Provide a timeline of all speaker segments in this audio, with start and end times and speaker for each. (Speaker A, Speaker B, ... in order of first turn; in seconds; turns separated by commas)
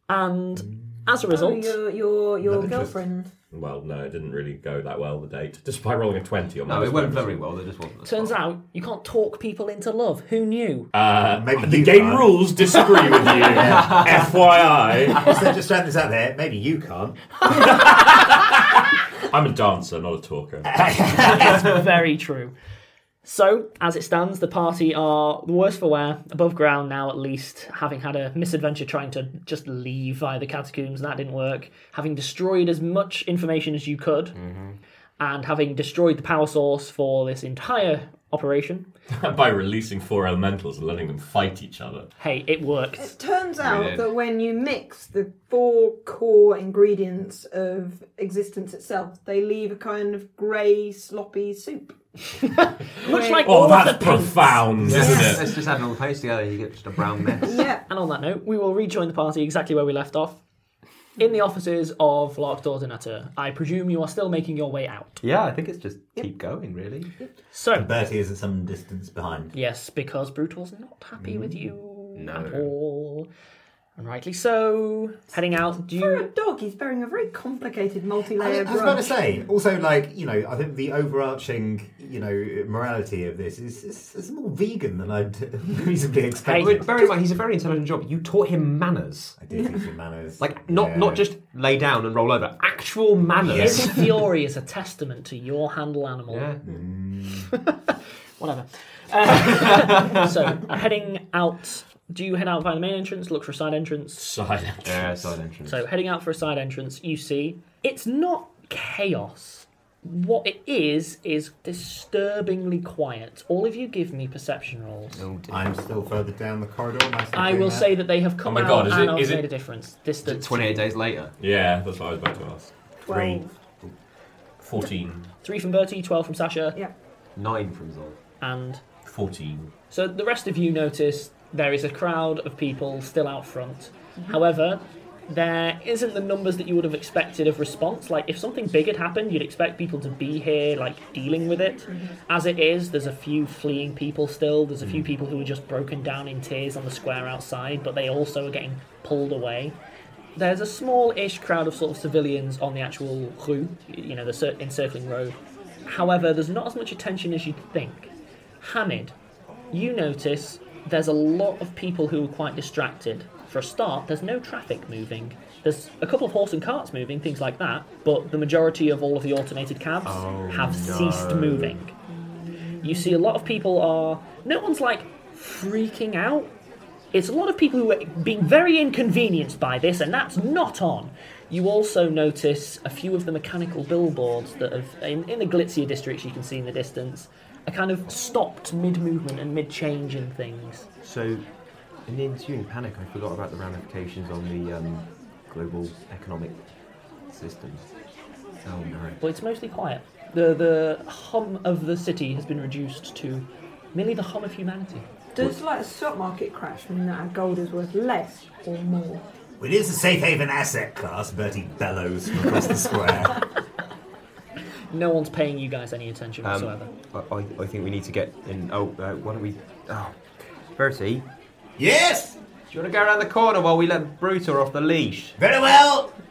Speaker A: 0.1-1.8, Speaker B: 1.3-3.3, Speaker C: 3.5-7.4, Speaker D: 6.7-8.4, Speaker A: 8.0-10.9, Speaker C: 10.9-15.3, Speaker E: 11.3-12.7, Speaker E: 13.4-14.3, Speaker D: 13.7-14.6, Speaker E: 15.2-17.2, Speaker C: 17.4-18.6, Speaker C: 19.2-20.8, Speaker E: 20.6-21.6, Speaker A: 21.2-22.5, Speaker A: 23.2-34.4, Speaker D: 34.3-34.8, Speaker A: 35.2-38.9, Speaker C: 39.1-42.1, Speaker A: 42.2-43.1, Speaker B: 43.0-52.0, Speaker D: 43.6-44.1, Speaker A: 53.0-54.7, Speaker B: 53.0-53.9, Speaker C: 53.4-55.5, Speaker D: 54.8-57.7, Speaker B: 54.9-55.6, Speaker B: 57.4-57.8, Speaker A: 57.9-60.4, Speaker A: 61.2-65.2, Speaker D: 65.2-67.2, Speaker A: 67.5-67.9, Speaker E: 67.7-69.5, Speaker A: 69.5-73.3, Speaker D: 71.2-72.7, Speaker A: 74.0-76.3, Speaker B: 75.8-79.2, Speaker E: 78.4-87.0, Speaker A: 86.5-87.0, Speaker D: 86.5-89.4, Speaker E: 89.4-91.3, Speaker D: 90.4-94.2, Speaker E: 93.4-93.8, Speaker A: 93.6-96.5, Speaker D: 96.3-96.8, Speaker E: 96.7-97.5, Speaker A: 98.4-104.3, Speaker D: 99.4-100.3, Speaker C: 104.2-105.3, Speaker D: 104.8-105.8, Speaker A: 105.7-115.2, Speaker D: 115.1-116.0, Speaker E: 115.5-117.9, Speaker A: 117.3-120.9, Speaker C: 118.4-119.5, Speaker D: 120.2-121.3, Speaker C: 121.4-122.7, Speaker B: 123.0-123.6, Speaker E: 123.1-123.9, Speaker C: 124.6-125.3, Speaker A: 125.4-126.8, Speaker D: 127.3-128.2, Speaker A: 128.4-128.8, Speaker C: 129.1-129.7, Speaker A: 129.9-149.8, Speaker B: 141.9-142.1, Speaker A: 150.4-159.2, Speaker A: 159.7-171.9, Speaker D: 170.1-171.8, Speaker B: 172.7-173.2, Speaker A: 172.8-176.5, Speaker A: 177.1-190.9, Speaker D: 191.0-191.5, Speaker D: 192.1-196.6, Speaker D: 197.3-197.9, Speaker D: 198.7-199.2, Speaker A: 199.2-205.1, Speaker B: 205.3-209.3, Speaker E: 209.6-213.4, Speaker A: 214.9-216.9, Speaker D: 216.4-221.3, Speaker E: 221.8-222.4, Speaker D: 222.7-225.4, Speaker E: 225.4-226.1